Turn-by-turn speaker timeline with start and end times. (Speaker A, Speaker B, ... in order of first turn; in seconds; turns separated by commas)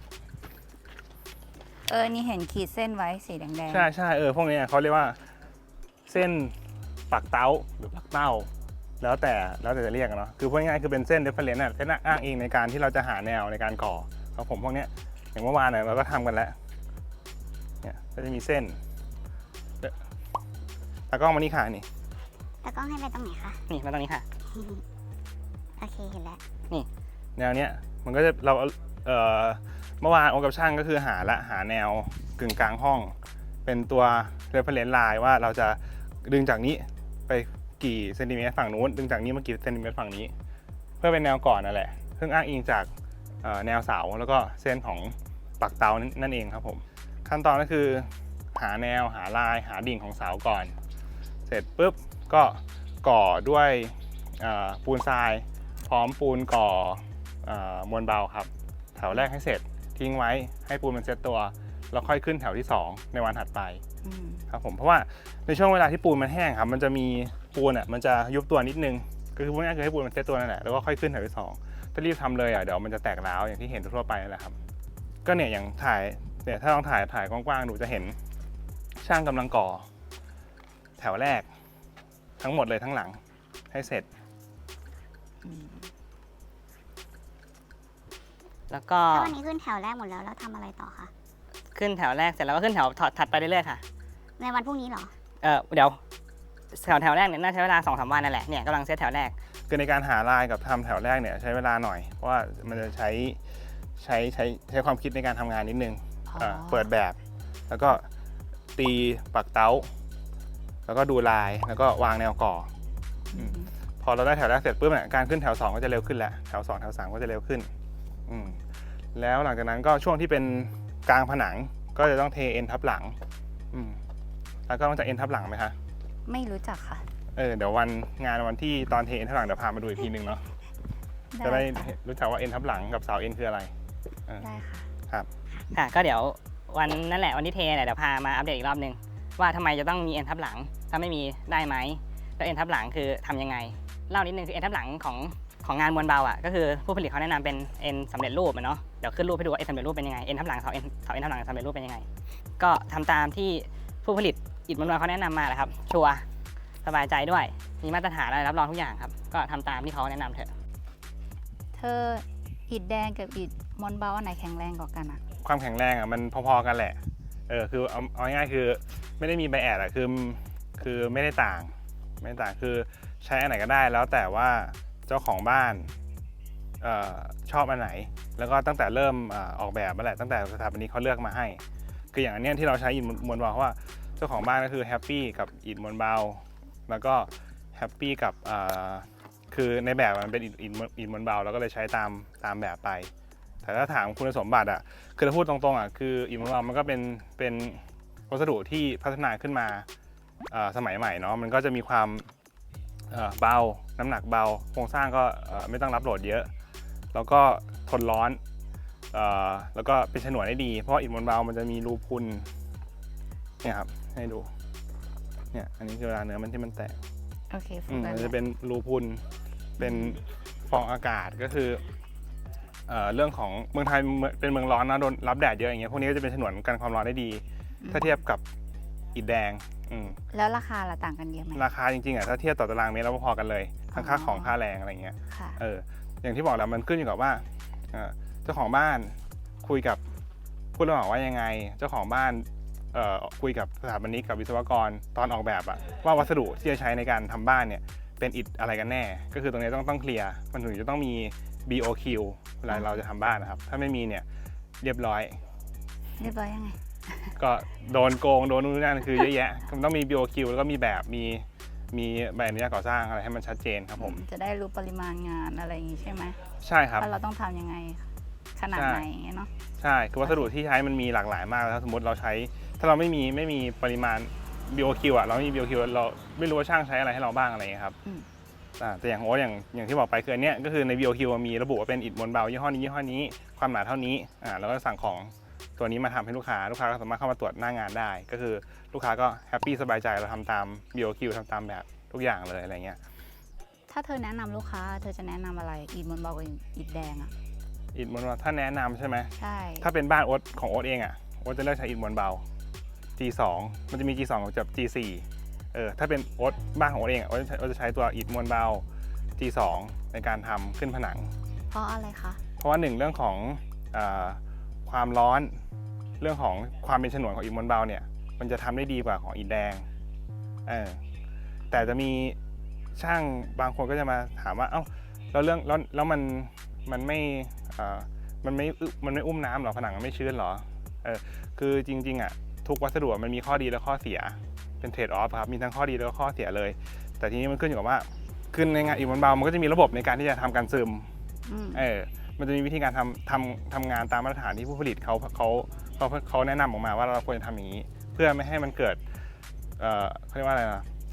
Speaker A: 1.9-3.9, Speaker B: 3.7-5.2, Speaker B: 6.0-6.6, Speaker B: 7.1-16.6, Speaker B: 17.8-18.8, Speaker B: 21.1-21.9, Speaker C: 22.6-23.6, Speaker D: 23.7-24.2, Speaker C: 24.5-24.8, Speaker C: 25.8-26.4, Speaker B: 27.4-40.3, Speaker B: 41.0-42.9, Speaker B: 43.4-50.8, Speaker B: 51.5-63.8, Speaker A: 64.0-64.5, Speaker B: 64.5-74.6, Speaker B: 75.2-78.2, Speaker B: 79.0-79.9, Speaker B: 81.0-81.5, Speaker B: 82.4-83.2, Speaker B: 83.7-84.1, Speaker A: 85.4-85.9, Speaker D: 88.7-89.3, Speaker C: 89.1-91.1, Speaker D: 91.7-93.8, Speaker C: 94.4-95.1, Speaker D: 95.4-96.0, Speaker D: 96.7-99.3, Speaker B: 99.7-103.4, Speaker B: 104.0-107.2, Speaker A: 106.3-106.9, Speaker B: 107.7-108.1, Speaker B: 108.8-109.9, Speaker B: 110.8-112.7, Speaker A: 113.3-113.7, Speaker B: 113.3-117.7, Speaker B: 118.3-118.6, Speaker B: 119.1-123.2, Speaker B: 123.7-124.0, Speaker B: 124.7-125.8, Speaker A: 126.2-127.1, Speaker B: 127.3-130.5, Speaker A: 131.3-131.9, Speaker B: 131.4-133.7, Speaker A: 134.4-134.9, Speaker D: 135.7-152.1, Speaker D: 152.6-156.2, Speaker D: 156.8-160.5, Speaker A: 161.7-165.2, Speaker B: 165.4-175.9, Speaker B: 176.8-181.6, Speaker B: 182.1-193.1, Speaker B: 193.6-199.9, Speaker B: 200.5-202.3, Speaker B: 203.1-206.5, Speaker B: 207.1-208.4, Speaker B: 209.1-212.5, Speaker B: 213.6-214.5, Speaker B: 215.5-217.0, Speaker A: 217.5-218.3, Speaker B: 217.9-219.2, Speaker A: 219.8-220.2, Speaker B: 219.8-221.8, Speaker B: 222.9-228.4, Speaker A: 227.8-228.1, Speaker B: 229.1-230.2, Speaker A: 230.3-231.7, Speaker B: 231.5-240.0, Speaker A: 233.9-234.5, Speaker A: 235.3-235.6, Speaker B: 240.7-254.2, Speaker B: 254.8-255.4, Speaker A: 256.2-257.3, Speaker B: 257.4-264.2, Speaker A: 264.0-266.4, Speaker B: 266.6-267.1, Speaker A: 267.0-269.5, Speaker B: 268.7-269.1, Speaker B: 269.8-278.0, Speaker B: 278.8-293.0, Speaker A: 293.9-297.3, Speaker B: 297.9-302.4, Speaker A: 299.4-299.9, Speaker B: 303.2-308.8, Speaker B: 309.4-311.3, Speaker A: 311.7-312.4, Speaker B: 312.6-315.6, Speaker B: 316.2-319.9, Speaker B: 320.6-321.0, Speaker B: 321.7-322.4, Speaker B: 322.9-341.1, Speaker A: 341.5-341.8, Speaker B: 341.7-349.0, Speaker B: 349.8-350.9